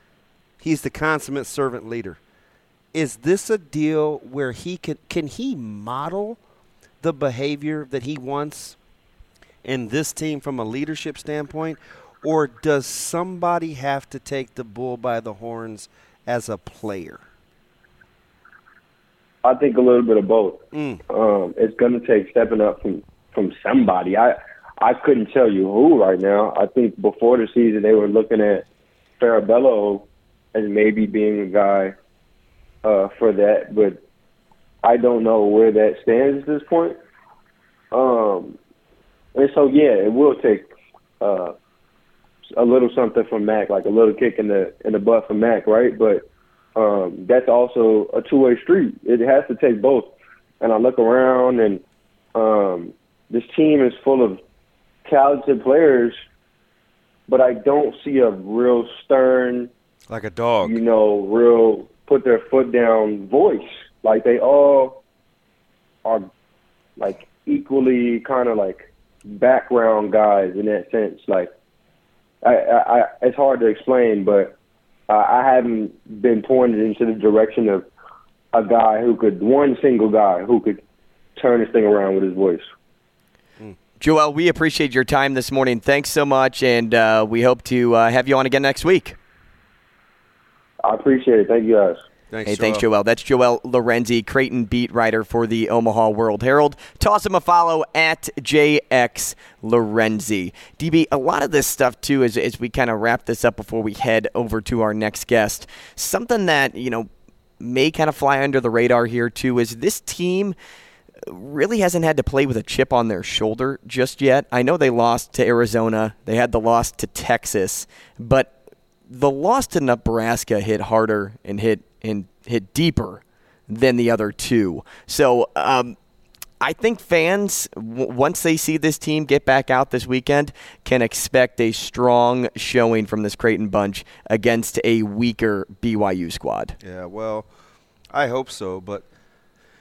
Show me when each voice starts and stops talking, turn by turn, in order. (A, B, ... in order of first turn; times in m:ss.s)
0:00.6-0:02.2 A
0:02.9-0:06.4 A
0:07.0-0:08.8 A
0:09.6-0:17.2 A
0:19.4-0:28.6 B
0:20.7-0:21.0 A
0:29.2-0:31.9 B
0:32.8-0:34.0 B
0:34.8-0:37.0 B
0:37.9-0:38.6 B
0:39.4-0:40.7 B
0:41.2-0:41.6 B
0:42.6-0:46.2 B
0:46.8-0:51.8 B
0:52.4-0:54.4 B
0:55.0-0:56.2 B
0:57.3-0:59.7 B
1:00.1-1:00.8 A
1:00.6-1:05.0 B
1:07.0-1:11.5 B
1:12.4-1:14.6 B
1:15.1-1:17.9 B
1:18.5-1:20.8 B
1:21.4-1:22.6 B
1:24.0-1:29.2 C
1:30.8-1:32.0 B
1:32.3-1:32.8 A
1:32.5-1:47.1 C
1:47.6-1:50.6 C
1:51.3-1:58.5 C
1:59.1-2:06.0 C
2:06.6-2:16.8 C
2:16.8-2:17.5 A
2:18.1-2:19.1 A